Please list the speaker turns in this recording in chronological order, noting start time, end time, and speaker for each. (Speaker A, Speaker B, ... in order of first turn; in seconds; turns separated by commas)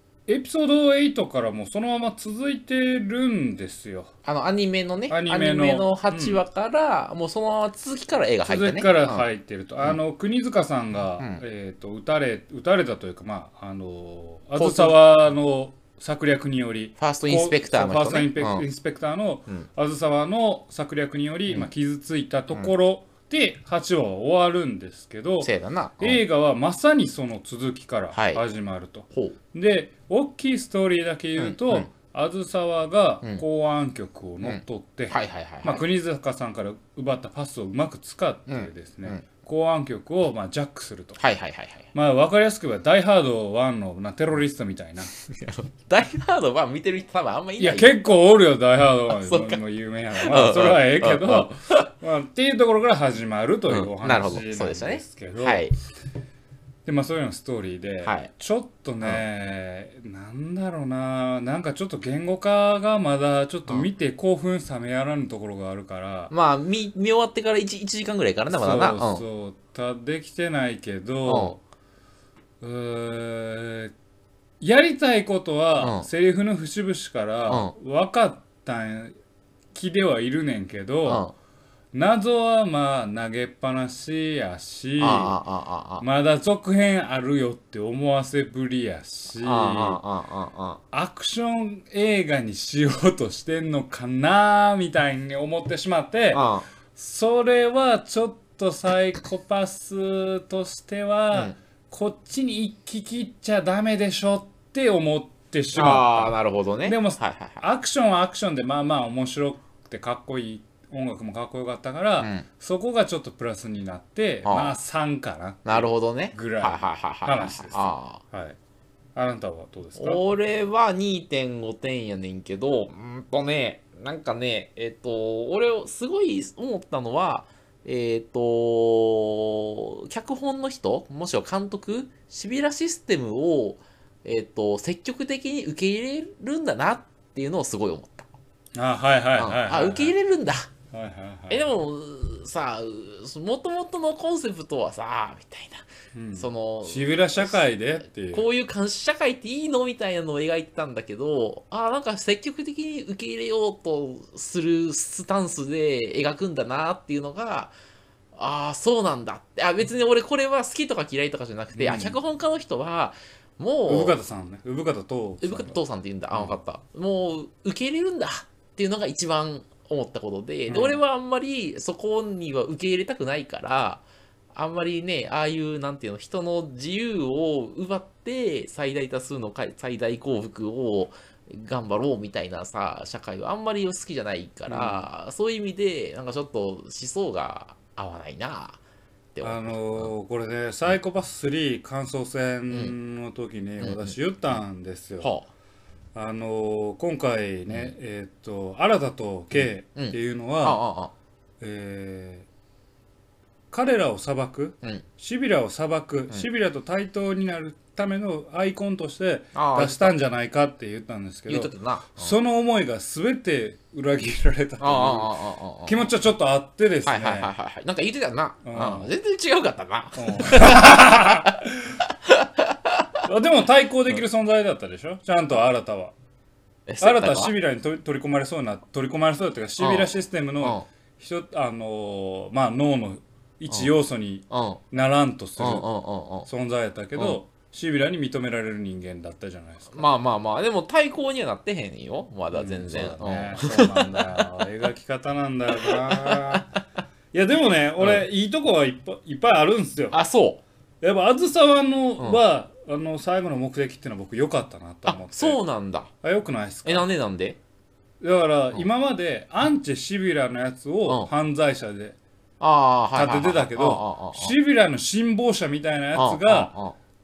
Speaker A: 0.3-4.1, Speaker B: 4.2-9.3, Speaker A: 5.1-6.4, Speaker A: 8.5-25.5, Speaker B: 14.6-15.0, Speaker B: 17.0-18.6, Speaker B: 25.4-26.2, Speaker A: 26.0-41.2, Speaker B: 28.1-28.4, Speaker B: 31.4-31.9, Speaker B: 34.4-35.8, Speaker B: 38.5-39.2, Speaker B: 41.2-41.9, Speaker A: 41.9-45.1, Speaker B: 45.1-48.0, Speaker A: 47.6-55.6, Speaker B: 49.2-49.6, Speaker B: 50.1-51.9, Speaker B: 53.7-55.8, Speaker A: 56.9-66.3, Speaker B: 58.0-58.3, Speaker B: 66.3-69.2, Speaker A: 68.5-71.6, Speaker B: 71.3-71.6, Speaker A: 72.6-73.9, Speaker A: 74.6-79.2, Speaker B: 75.8-76.1, Speaker B: 77.5-77.7, Speaker A: 79.7-81.3, Speaker B: 81.1-81.3, Speaker A: 81.9-85.4, Speaker B: 85.0-86.1, Speaker A: 86.0-90.0, Speaker B: 89.4-90.8, Speaker A: 90.9-118.6, Speaker B: 96.3-96.7, Speaker B: 105.8-107.7, Speaker B: 112.2-112.5, Speaker B: 114.4-114.8, Speaker B: 115.7-118.2, Speaker A: 119.2-120.2, Speaker B: 120.0-138.3, Speaker A: 138.8-140.2, Speaker B: 139.4-140.7, Speaker A: 140.9-141.7, Speaker B: 141.5-147.6, Speaker A: 146.1-148.5, Speaker B: 148.3-157.7, Speaker B: 158.3-164.2, Speaker A: 161.8-162.2, Speaker A: 163.9-165.8, Speaker B: 165.4-188.8, Speaker A: 166.3-166.6, Speaker A: 170.7-171.0, Speaker A: 184.7-185.1, Speaker B: 189.3-190.1, Speaker A: 189.4-195.3, Speaker B: 193.8-194.2, Speaker B: 195.2-195.5, Speaker A: 196.2-200.8, Speaker B: 199.5-201.1, Speaker A: 201.6-202.5, Speaker A: 203.7-217.5, Speaker B: 209.5-210.2, Speaker B: 211.5-212.4, Speaker B: 214.8-216.1, Speaker B: 217.1-221.6, Speaker A: 218.6-219.1, Speaker A: 220.2-222.0, Speaker B: 222.2-223.2, Speaker A: 223.2-226.1, Speaker B: 226.9-227.5, Speaker A: 227.0-235.8, Speaker B: 229.8-230.1, Speaker B: 230.6-230.9, Speaker B: 234.5-234.8, Speaker B: 235.6-236.5, Speaker A: 236.5-240.1, Speaker B: 239.9-244.7, Speaker A: 242.5-246.7, Speaker B: 245.7-246.8, Speaker A: 247.3-250.2, Speaker B: 248.0-248.2, Speaker B: 250.1-250.6, Speaker A: 251.0-255.6, Speaker B: 255.1-256.1, Speaker A: 256.2-257.1, Speaker B: 256.9-257.6, Speaker A: 258.2-262.2, Speaker B: 262.6-264.6, Speaker A: 263.1-266.7, Speaker B: 266.1-267.0